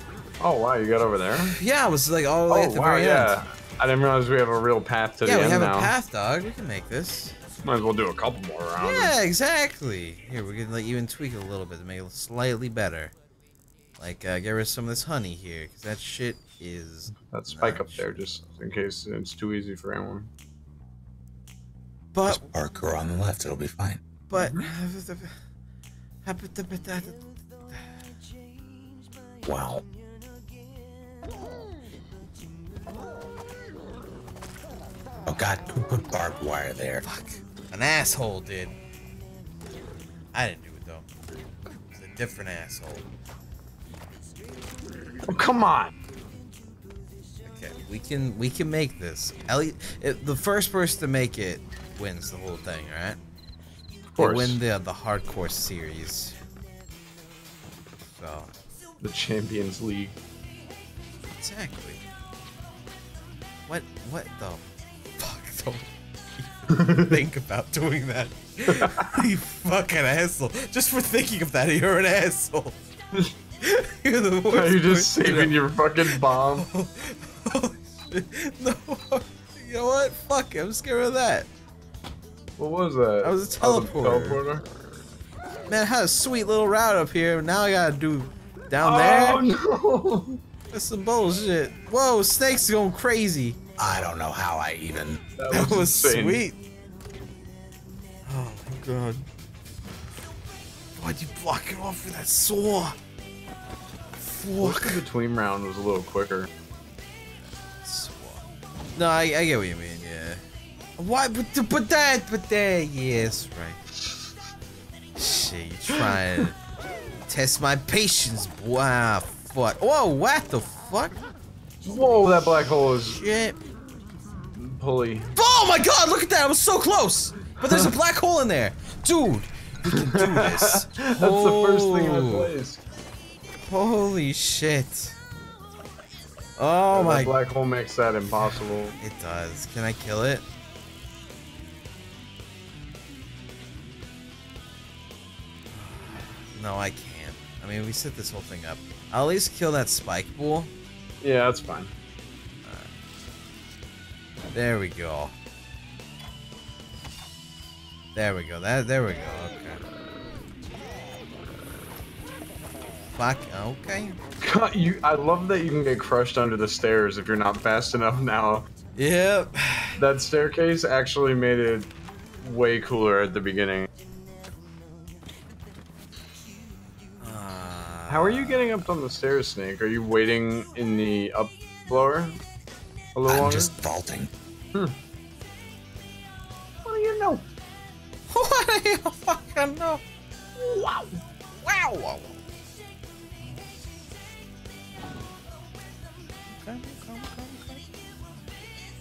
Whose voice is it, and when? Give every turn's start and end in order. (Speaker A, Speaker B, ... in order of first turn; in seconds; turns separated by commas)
Speaker A: 0.4-1.6, Speaker B: 1.5-3.4, Speaker A: 2.5-5.9, Speaker B: 5.2-7.4, Speaker A: 7.6-9.1, Speaker B: 8.8-13.1, Speaker B: 14.0-18.6, Speaker A: 17.3-20.3, Speaker B: 22.1-22.5, Speaker C: 22.3-24.0, Speaker B: 24.3-25.4, Speaker A: 24.3-24.7, Speaker B: 26.2-27.8, Speaker C: 29.4-29.8, Speaker C: 35.3-37.0, Speaker B: 37.0-38.8, Speaker B: 40.3-41.0, Speaker B: 41.9-43.1, Speaker A: 45.3-45.9, Speaker B: 47.5-53.2, Speaker A: 54.1-54.6, Speaker B: 54.2-56.4, Speaker B: 58.1-58.5, Speaker A: 59.0-60.1, Speaker B: 61.4-62.0, Speaker B: 63.7-64.6, Speaker B: 65.2-72.8, Speaker B: 73.6-75.6, Speaker A: 74.5-76.7, Speaker B: 76.1-81.5, Speaker A: 82.6-84.6, Speaker B: 83.2-84.4, Speaker B: 85.7-89.5, Speaker A: 88.8-90.4, Speaker B: 90.7-94.2, Speaker C: 93.8-95.2, Speaker A: 95.4-96.5, Speaker B: 95.5-96.6, Speaker B: 98.3-99.3, Speaker B: 101.0-103.0, Speaker B: 104.2-105.0, Speaker A: 104.6-106.5, Speaker B: 107.4-108.4, Speaker B: 109.0-110.4, Speaker B: 111.0-113.8, Speaker B: 115.2-116.6, Speaker B: 117.3-121.2, Speaker A: 121.8-123.2, Speaker B: 123.1-123.6, Speaker A: 124.5-125.3, Speaker B: 125.3-132.5, Speaker A: 129.9-132.8, Speaker B: 133.7-135.2, Speaker B: 136.6-137.4, Speaker A: 136.9-138.9, Speaker B: 139.0-140.4, Speaker B: 145.7-150.7, Speaker A: 151.2-151.9, Speaker B: 154.5-155.3, Speaker B: 158.2-159.8, Speaker B: 163.1-164.2, Speaker A: 164.4-168.7, Speaker B: 169.0-169.9, Speaker A: 170.0-173.9, Speaker B: 177.2-178.8, Speaker A: 178.1-182.4, Speaker A: 183.2-183.7, Speaker C: 183.3-184.3, Speaker A: 186.8-187.4, Speaker B: 188.3-190.0, Speaker B: 190.6-191.1, Speaker B: 191.6-192.4, Speaker B: 196.5-197.8